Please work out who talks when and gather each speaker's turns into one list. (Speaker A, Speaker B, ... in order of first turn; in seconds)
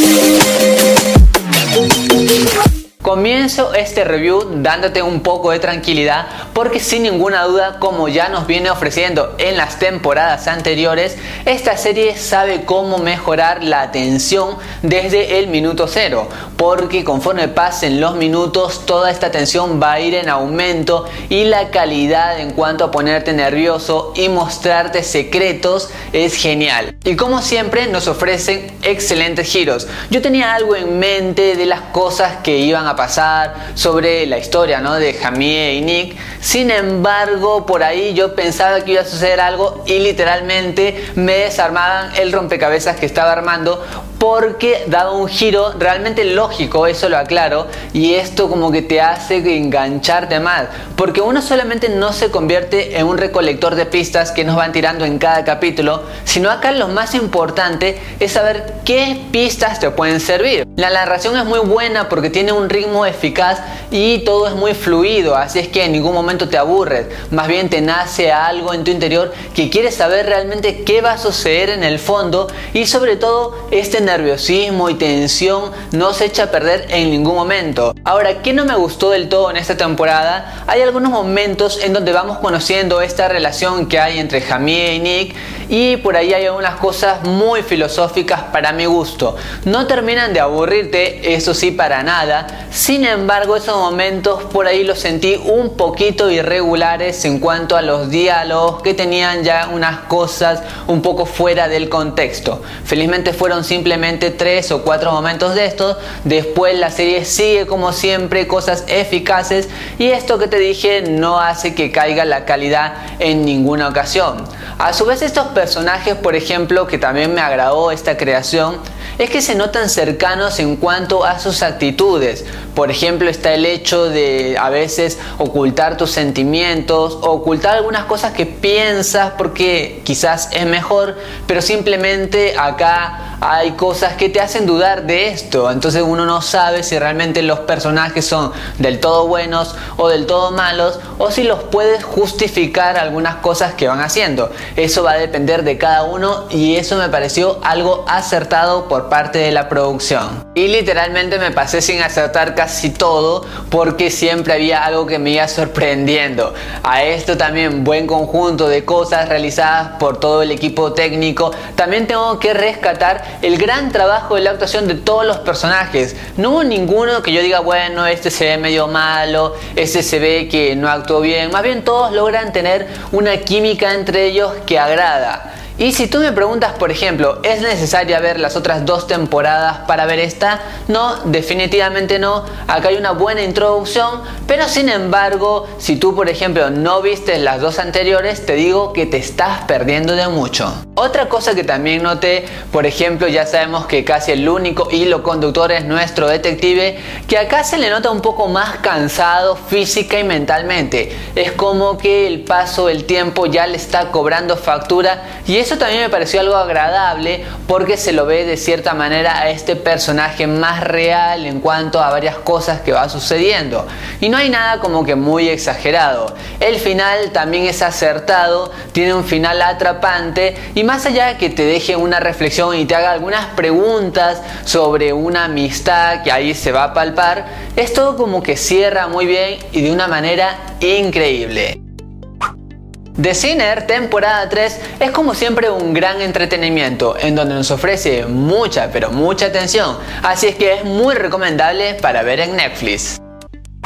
Speaker A: 3.0-231.8, 233.2-243.2